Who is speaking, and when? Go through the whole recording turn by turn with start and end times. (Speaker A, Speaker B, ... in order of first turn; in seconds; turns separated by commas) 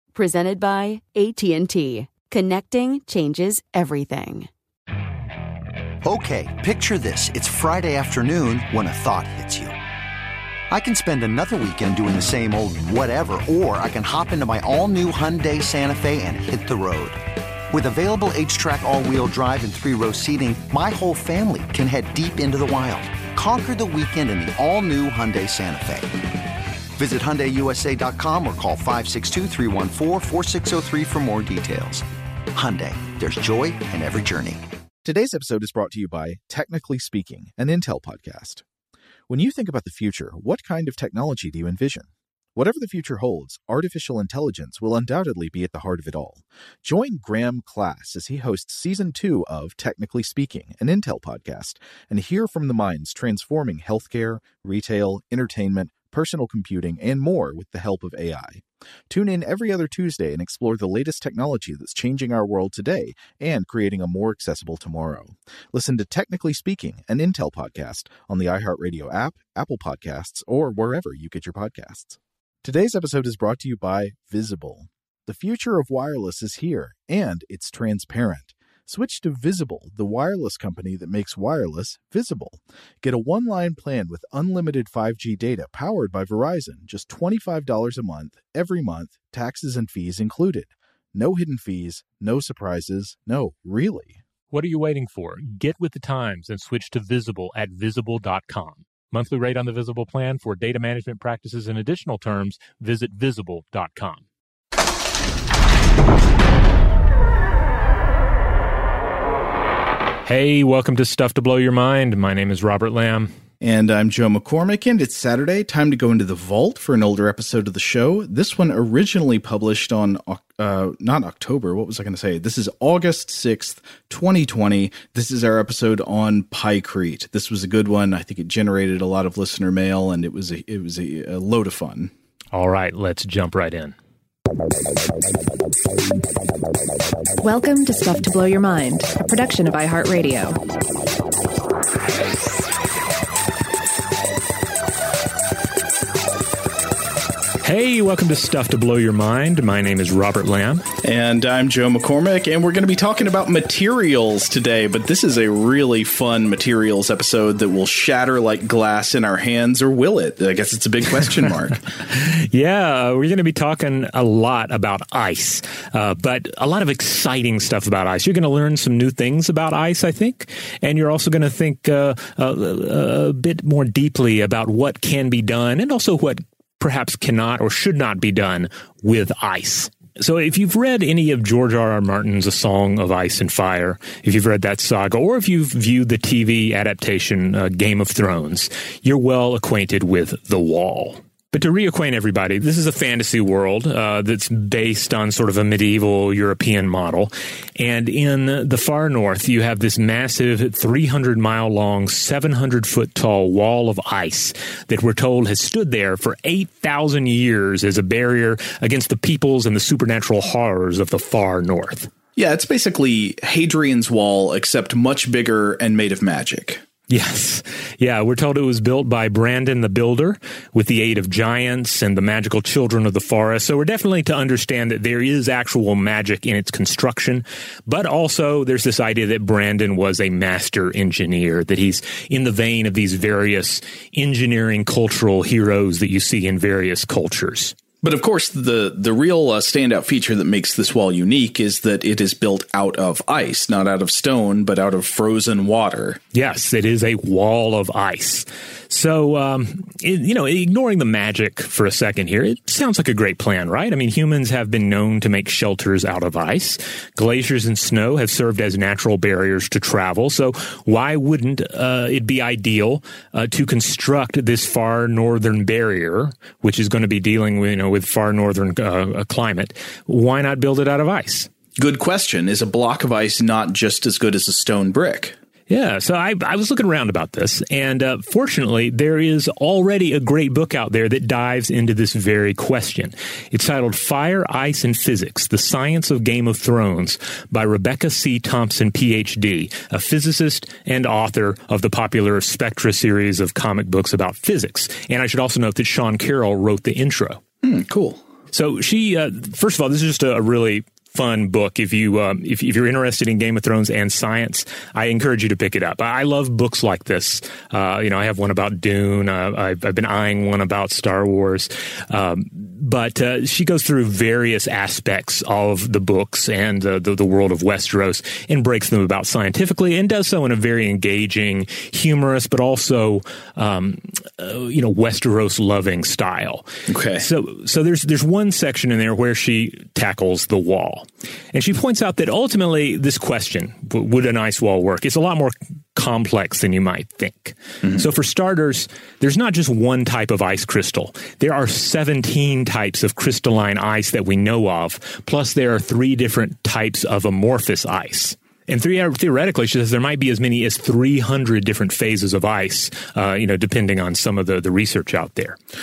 Speaker A: 0.1-4.5, Speaker B: 6.0-9.8, Speaker B: 10.7-17.2, Speaker B: 17.7-26.1, Speaker B: 26.9-34.6, Speaker C: 35.0-38.6, Speaker C: 39.3-94.2, Speaker D: 94.5-104.2, Speaker D: 110.2-113.3, Speaker C: 113.6-132.1, Speaker D: 132.5-133.9, Speaker E: 137.4-140.6, Speaker D: 147.6-150.9, Speaker C: 151.0-161.8, Speaker D: 162.1-212.1, Speaker C: 212.3-216.8, Speaker D: 217.1-237.8, Speaker C: 238.0-246.2, Speaker D: 246.3-271.5, Speaker C: 271.8-275.4, Speaker D: 275.7-297.4, Speaker C: 297.6-298.2, Speaker D: 298.5-355.6, Speaker C: 326.9-327.2